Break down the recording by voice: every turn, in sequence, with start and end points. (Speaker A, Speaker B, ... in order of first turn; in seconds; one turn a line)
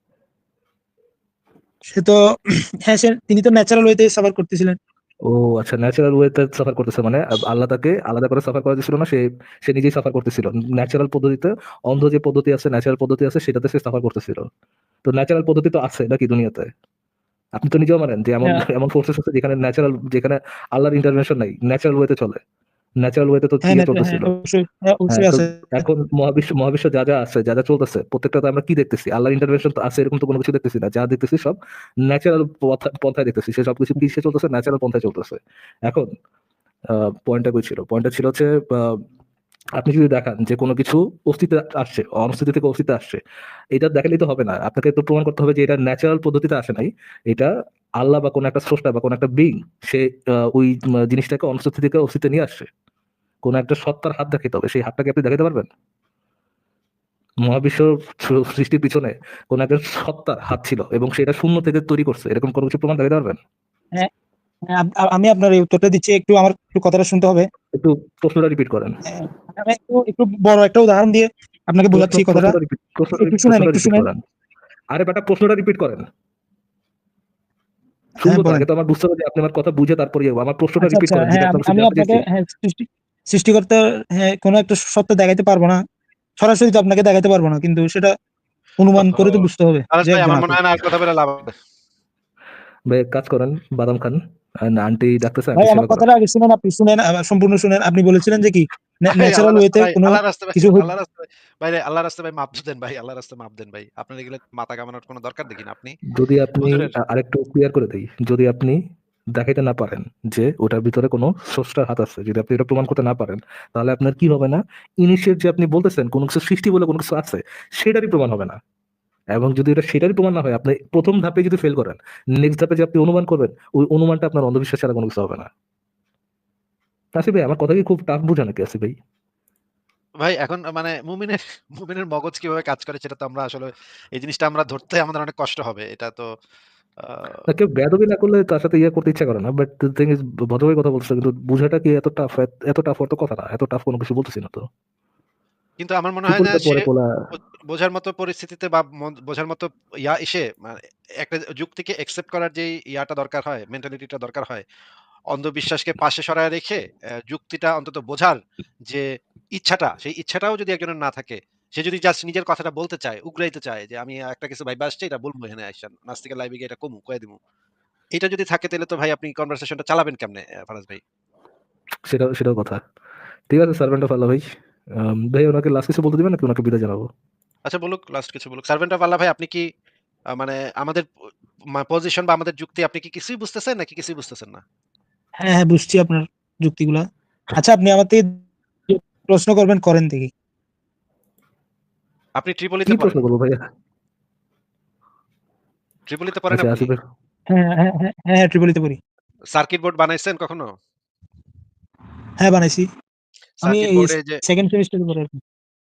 Speaker A: 1.9-2.2
Speaker A: 2.8-4.8
Speaker B: 5.3-14.5
Speaker B: 15.1-16.7
Speaker B: 17.6-22.4
Speaker B: 23.0-24.3
Speaker A: 23.6-25.9
Speaker B: 25.1-36.1
Speaker B: 36.9-39.0
Speaker B: 39.8-43.2
Speaker B: 43.8-52.7
Speaker B: 53.5-55.7
Speaker B: 57.5-63.4
Speaker A: 64.7-67.5
Speaker B: 67.7-69.0
Speaker A: 69.1-72.6
Speaker B: 71.9-74.2
Speaker A: 73.2-74.1
Speaker B: 74.9-76.1
Speaker B: 78.2-82.2
Speaker A: 78.2-78.7
Speaker A: 80.8-85.8
Speaker A: 86.4-88.1
Speaker A: 88.8-90.6
Speaker C: 89.0-91.5
Speaker B: 92.9-96.1
Speaker A: 95.5-100.9
Speaker C: 99.1-106.0
Speaker B: 106.1-108.8
Speaker C: 106.6-107.0
Speaker B: 109.3-118.6
Speaker B: 119.3-125.5
Speaker B: 127.2-128.9
Speaker C: 130.2-136.3
Speaker C: 137.0-137.4
Speaker B: 137.5-144.6
Speaker C: 145.8-146.9
Speaker B: 146.3-147.1
Speaker C: 147.7-154.6
Speaker C: 155.3-167.4
Speaker C: 168.2-171.0
Speaker B: 172.1-172.8
Speaker B: 173.5-174.4
Speaker B: 175.0-177.1
Speaker C: 177.7-179.7
Speaker C: 180.3-181.1
Speaker C: 181.7-184.6
Speaker A: 185.4-188.3
Speaker A: 188.9-190.3
Speaker C: 192.4-193.2
Speaker B: 192.9-193.6
Speaker C: 196.1-196.9
Speaker B: 196.5-197.0
Speaker A: 197.5-199.0
Speaker C: 199.6-200.7
Speaker A: 202.4-202.9
Speaker C: 203.6-204.4
Speaker A: 203.6-205.4